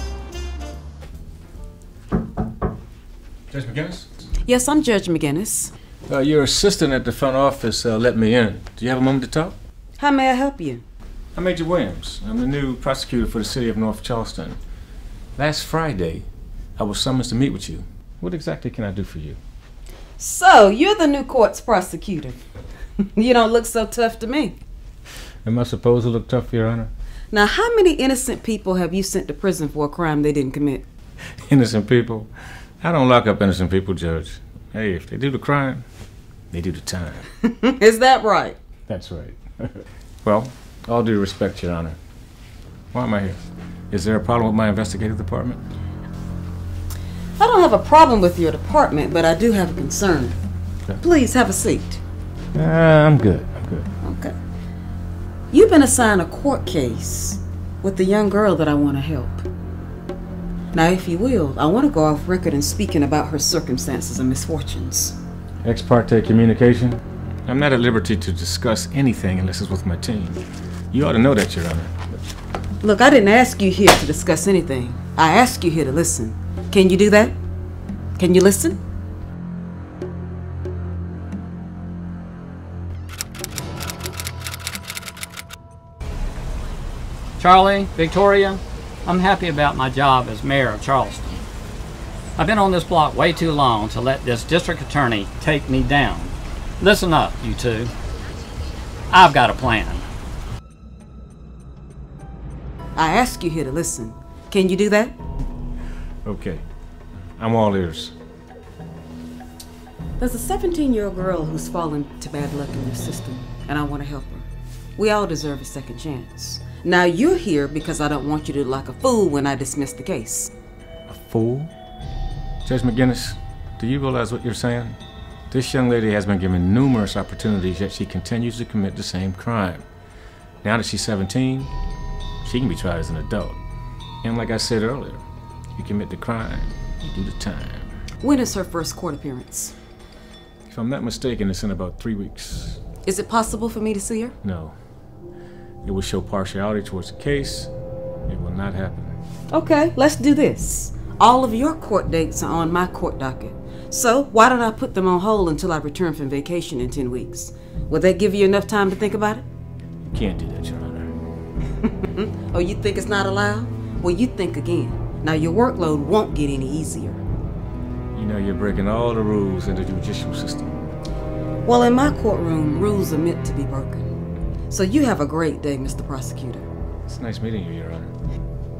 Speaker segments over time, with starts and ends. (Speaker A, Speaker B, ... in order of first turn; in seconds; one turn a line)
Speaker A: 3.5-4.1
Speaker B: 4.5-5.7
Speaker A: 6.1-9.6
Speaker B: 10.0-10.8
Speaker A: 11.3-14.6
Speaker A: 15.3-19.4
Speaker B: 20.2-22.4
Speaker B: 23.1-24.5
Speaker A: 25.4-26.9
Speaker B: 27.3-30.8
Speaker A: 31.4-32.3
Speaker A: 32.8-35.8
Speaker A: 36.5-37.2
Speaker B: 37.7-38.5
Speaker A: 38.9-42.0
Speaker A: 42.9-43.4
Speaker A: 43.9-45.6
Speaker B: 47.4-50.4
Speaker B: 51.0-52.0
Speaker A: 52.5-53.9
Speaker B: 54.0-54.3
Speaker B: 55.5-59.4
Speaker B: 60.7-65.2
Speaker A: 65.6-71.9
Speaker B: 72.8-77.3
Speaker B: 78.2-78.8
Speaker C: 87.4-91.4
Speaker C: 92.4-97.9
Speaker C: 99.1-100.0
Speaker B: 103.0-105.1
Speaker A: 106.2-106.6
Speaker A: 107.4-108.1
Speaker B: 110.2-114.5
Speaker B: 115.0-120.5
Speaker A: 121.1-121.7
Speaker A: 122.6-125.0
Speaker A: 125.5-129.8
Speaker A: 130.6-131.7
Speaker A: 132.4-133.6
Speaker A: 134.2-135.2
Speaker A: 135.8-137.9
Speaker B: 138.2-139.7
Speaker A: 140.7-142.8
Speaker B: 143.1-144.3
Speaker A: 144.4-144.7
Speaker A: 145.8-147.7
Speaker A: 148.3-149.1
Speaker B: 149.5-159.4
Speaker A: 160.1-161.1
Speaker B: 161.8-167.2
Speaker A: 168.1-170.8
Speaker B: 171.7-174.1
Speaker B: 174.7-176.7
Speaker A: 177.1-178.1